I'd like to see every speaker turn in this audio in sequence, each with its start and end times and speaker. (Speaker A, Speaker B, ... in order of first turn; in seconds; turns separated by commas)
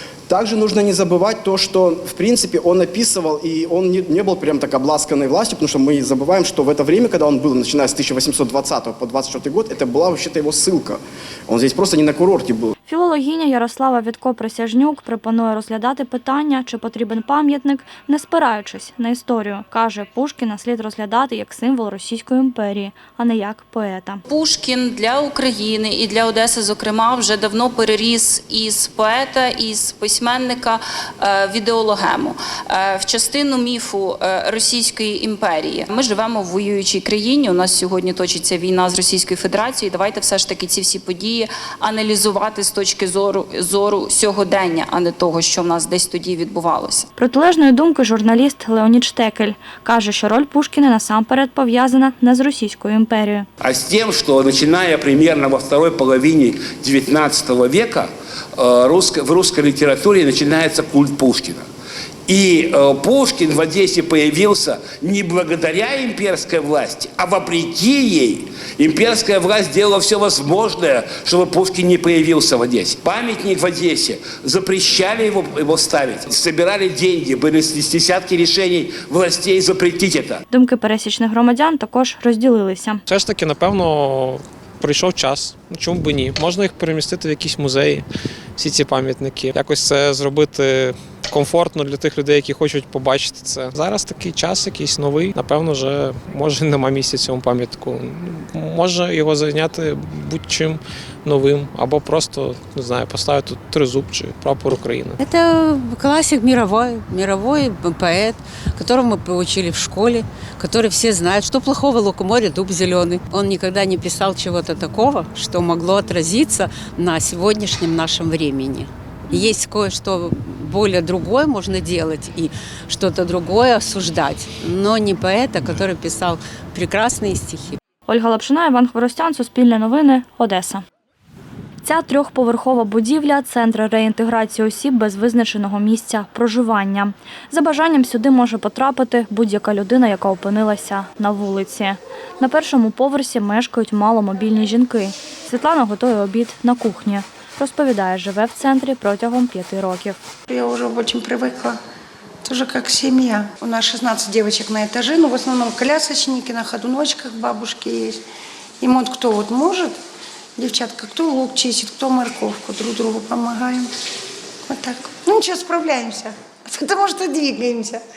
Speaker A: 0.3-12.7, Speaker B: 12.9-24.2, Speaker C: 24.3-47.1, Speaker B: 47.2-53.5, Speaker D: 53.6-61.6, Speaker D: 62.3-80.4, Speaker B: 80.5-83.0, Speaker E: 83.1-88.1, Speaker E: 88.6-105.4, Speaker F: 105.3-127.8, Speaker B: 128.1-130.8, Speaker B: 131.8-150.2, Speaker G: 150.5-151.8, Speaker G: 152.4-158.2, Speaker G: 158.8-160.0, Speaker G: 160.6-163.9, Speaker G: 164.7-168.0